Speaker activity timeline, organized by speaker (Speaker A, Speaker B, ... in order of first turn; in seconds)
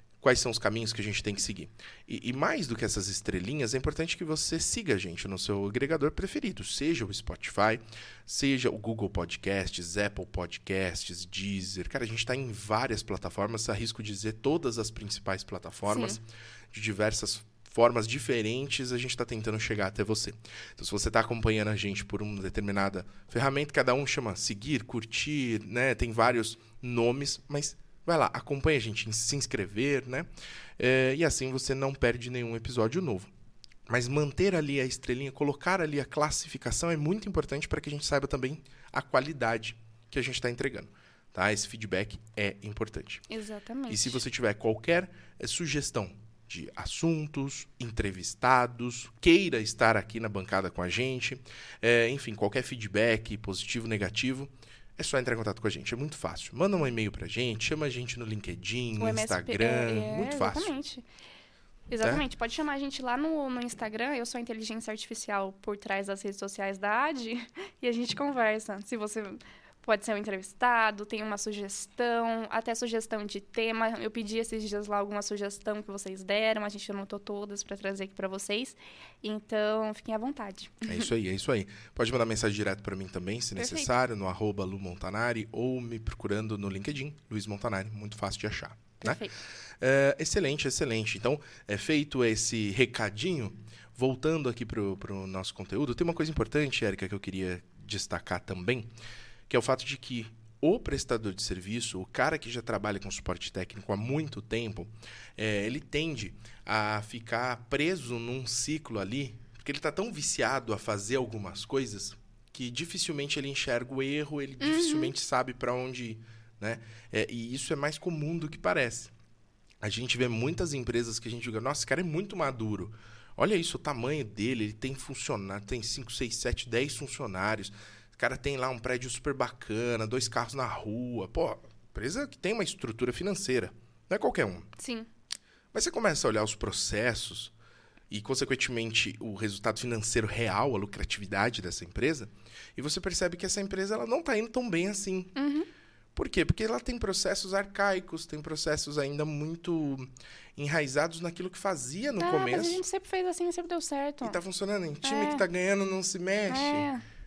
Speaker A: 0.2-30.3, 30.8-33.3, 33.9-43.2, 43.9-60.7, 80.9-89.2, 89.8-98.9, 99.5-119.1, 119.8-134.7, 135.7-137.5, 138.1-145.3, 146.2-152.8, 154.2-156.9
Speaker B: 15.9-16.2, 43.3-44.2, 59.0-61.1, 61.9-81.1, 83.6-83.9, 89.0-89.4, 114.6-115.1, 134.8-135.1, 145.3-145.7, 152.2-154.4, 155.0-155.4, 156.5-157.0